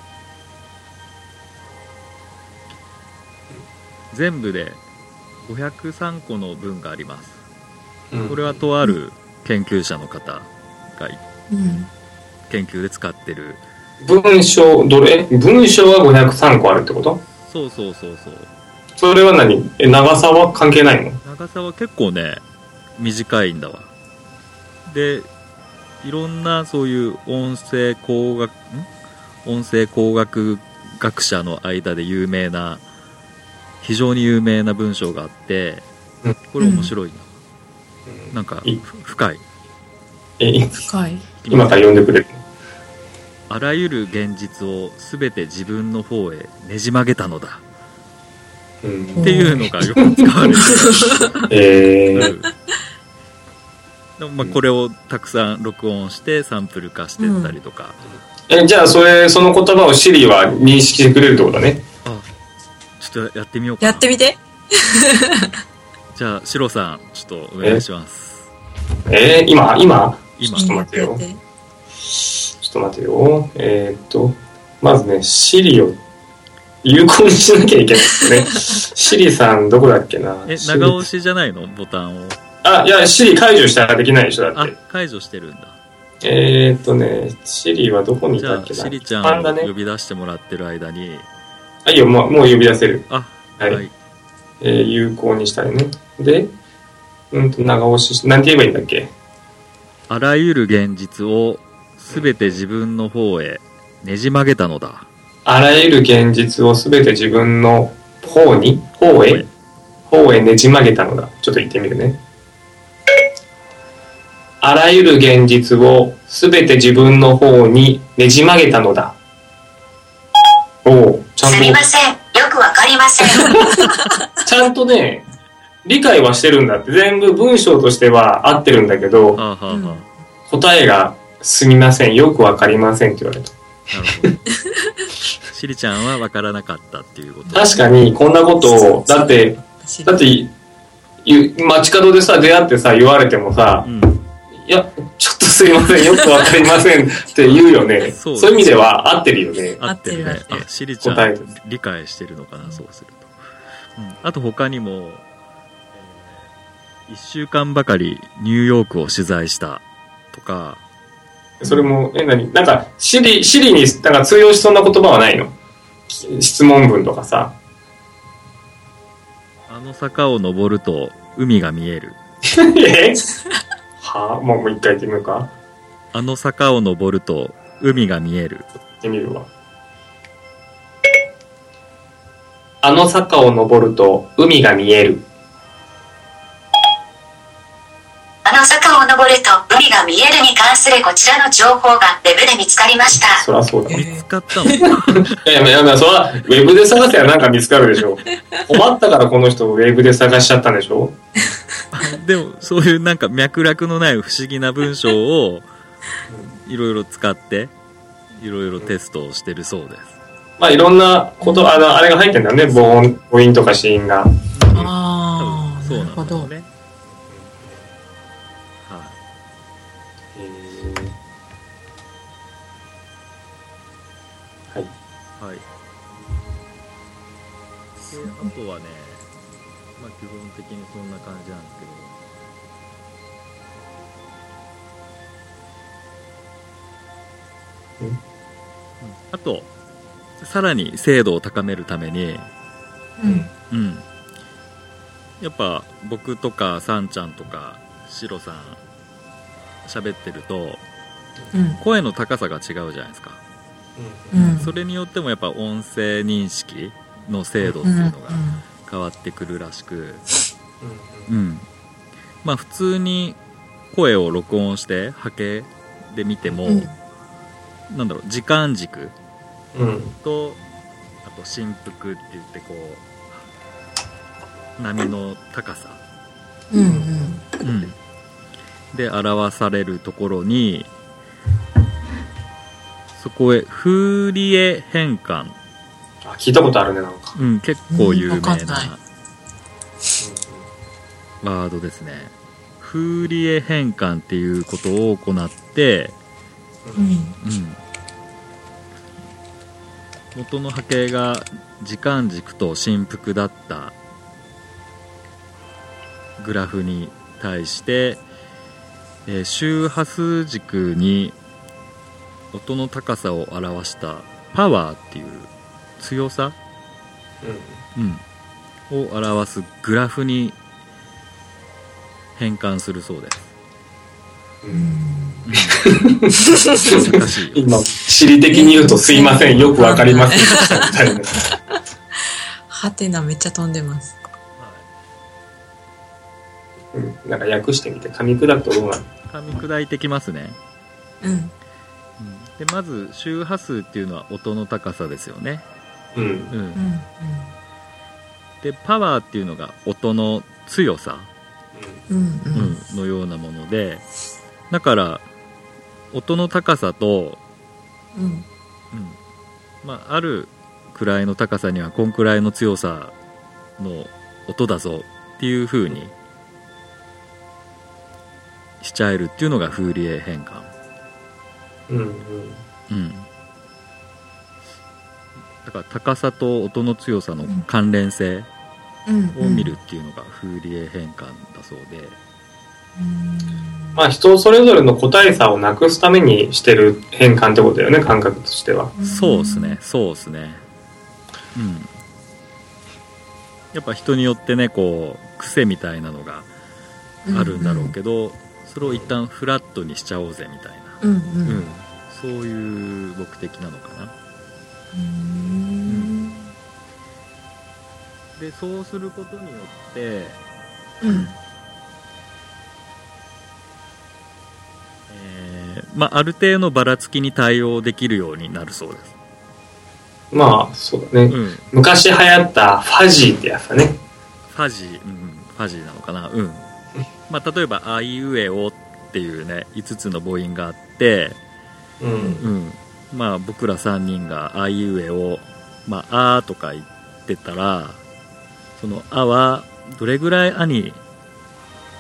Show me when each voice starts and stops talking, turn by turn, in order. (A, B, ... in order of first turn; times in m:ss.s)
0:04.1-0:04.8 A
0:05.4-0:07.4 A
0:08.1-0:08.6 B
0:08.3-0:11.2 A
0:11.5-0:11.9 C
0:12.5-0:13.6 A
0:14.0-0:17.2 B
0:17.4-0:18.5 A
0:19.0-0:21.2 B
0:21.2-0:22.4 A
0:23.0-0:23.9 A
0:24.9-0:25.3 A
0:26.0-0:28.9 A
0:29.4-0:32.8 A
0:33.8-0:35.8 A
0:36.5-0:37.4 A
0:36.6-0:36.9 C
0:38.1-0:38.8 B
0:38.3-0:39.4 A
0:40.4-0:40.9 B
0:40.9-0:41.3 C
0:41.4-0:41.9 A
0:41.5-0:42.4 B
0:43.5-0:47.6 A
0:48.8-0:50.8 B
0:49.2-0:49.7 C
0:49.2-0:51.6 A
0:50.4-0:51.5 C
0:51.5-0:52.3 B
0:52.1-0:52.5 A
0:54.2-0:58.0 A
0:57.2-0:57.6 C
0:58.1-1:01.8 B
1:03.0-1:04.1 A
1:03.8-1:05.5 C
1:06.1-1:08.5 A
1:09.1-1:11.2 B
1:10.4-1:10.8 A
1:10.5-1:11.4 C
1:12.6-1:16.0 B
1:16.8-1:21.1 B
1:18.1-1:18.5 C
1:20.5-1:22.4 A
1:22.6-1:24.8 B
1:24.5-1:25.8 A
1:26.2-1:29.7 B
1:28.4-1:31.3 A
1:31.8-1:33.1 B
1:33.1-1:33.9 A
1:34.6-1:36.5 B
1:37.3-1:39.1 B
1:40.1-1:45.1 A
1:42.1-1:42.6 B
1:45.5-1:49.5 B
1:49.2-1:49.5 A
1:50.1-1:52.2 B
1:54.6-1:59.2 B
2:00.8-2:01.8 B
2:01.4-2:03.6 D
2:04.4-2:05.2 B
2:05.8-2:09.4 B
2:09.4-2:10.1 A
2:09.7-2:10.0 C
2:10.5-2:13.6 B
2:13.9-2:14.4 A
2:14.1-2:14.3 B
2:15.5-2:17.7 A
2:17.5-2:20.5 B
2:18.6-2:20.2 C
2:21.2-2:23.9 B
2:23.8-2:24.2 A
2:24.6-2:29.8 B
2:26.1-2:26.4 C
2:27.4-2:28.9 A
2:29.8-2:33.3 A
2:29.8-2:30.7 C
2:31.0-2:31.5 B
2:34.0-2:35.2 A
2:35.9-2:36.5 A
2:37.1-2:40.8 A
2:41.6-2:45.6 B
2:41.6-2:41.9 C
2:46.1-2:47.6 B
2:49.7-2:52.2 A
2:52.5-2:53.2 B
2:54.0-2:55.5 B
2:56.1-2:58.7 A
2:59.0-2:59.5 B
3:02.8-3:05.2 B
3:08.4-3:13.4 D
3:13.3-3:14.0 B
3:13.9-3:14.9 C
3:13.9-3:15.4 A
3:15.3-3:21.2 B
3:21.9-3:25.7 A
3:26.3-3:26.6 B
3:26.7-3:27.7 A
3:28.4-3:30.2 A
3:30.6-3:34.3 B
3:31.4-3:31.8 C
3:34.5-3:36.7 A
3:34.7-3:36.5 C
3:37.3-3:37.9 B
3:38.8-3:39.2 A
3:40.4-3:41.2 B
3:45.4-3:45.6 A
3:48.0-3:49.3 A
3:48.2-3:48.5 C
3:50.0-3:52.1 A
3:59.0-3:59.7 A
4:00.4-4:02.5 A
4:03.2-4:03.5 C
4:03.2-4:03.5 B
4:03.7-4:04.0 A
4:05.4-4:08.8 A
4:09.8-4:10.8 A
4:11.5-4:11.8 C
4:11.8-4:13.4 A
4:14.0-4:14.7 B
4:14.3-4:14.7 C
4:14.4-4:20.2 A
4:17.8-4:18.6 C
4:20.8-4:21.3 B
4:21.3-4:21.7 A
4:22.4-4:23.4 A
4:23.9-4:26.9 A
4:26.7-4:27.0 C
4:27.9-4:29.2 A
4:29.7-4:30.2 B
4:30.2-4:30.6 A
4:31.2-4:33.4 A
4:34.8-4:36.0 A
4:36.7-4:37.4 C
4:36.7-4:37.4 B
4:37.6-4:38.0 A
4:38.9-4:40.9 A
4:43.2-4:45.6 A
4:46.2-4:47.4 B
4:47.4-4:49.0 A
4:47.9-4:48.9 C
4:50.2-4:50.7 B
4:51.4-4:56.2 A
4:56.8-4:57.1 B
4:57.0-4:57.4 C
4:57.4-4:57.8 A
5:00.3-5:04.0 A
5:06.4-5:08.2 A
5:09.3-5:11.4 A
5:12.5-5:16.6 A
5:17.4-5:17.8 B
5:18.0-5:18.2 A
5:18.9-5:20.6 A
5:22.4-5:23.5 A
5:24.6-5:25.0 B
5:24.7-5:25.4 C
5:25.5-5:25.9 A
5:25.7-5:31.5 B
5:26.5-5:27.1 C
5:26.8-5:27.7 A
5:28.5-5:30.9 C
5:32.7-5:34.2 C
5:34.6-5:34.9 A
5:36.9-5:39.1 B
5:39.3-5:40.6 A
5:41.2-5:41.5 C
5:42.2-5:45.6 A
5:46.1-5:46.5 B
5:46.5-5:46.8 A
5:46.8-5:47.5 C
5:48.6-5:51.3 A
5:51.8-5:52.0 B
5:52.1-5:52.8 C
5:52.5-5:54.1 A
5:54.7-5:55.2 A
5:56.1-5:57.4 A
5:58.2-5:58.5 C
5:58.9-5:59.2 A
5:59.8-6:03.1 A
6:03.8-6:06.1 A
6:08.8-6:10.7 A
6:11.9-6:12.6 B
6:12.9-6:13.3 A
6:15.6-6:18.5 A
6:19.1-6:19.7 C
6:19.4-6:22.2 A
6:23.0-6:24.0 C
6:24.0-6:28.9 B
6:29.0-6:29.8 C
6:29.0-6:30.6 A
6:31.6-6:31.9 A
6:33.7-6:36.5 A
6:37.2-6:37.9 C
6:37.3-6:44.1 A
6:38.8-6:39.1 B
6:41.0-6:41.7 C
6:44.9-6:46.5 C
6:45.9-6:46.2 A
6:48.4-6:50.4 A
6:51.0-6:51.3 C
6:51.0-6:51.4 A
6:55.1-6:59.1 A
7:00.3-7:04.0 B
7:01.3-7:01.7 A
7:04.5-7:06.7 A
7:07.3-7:11.4 A
7:12.0-7:12.5 B
7:12.4-7:18.0 A
7:18.8-7:21.0 A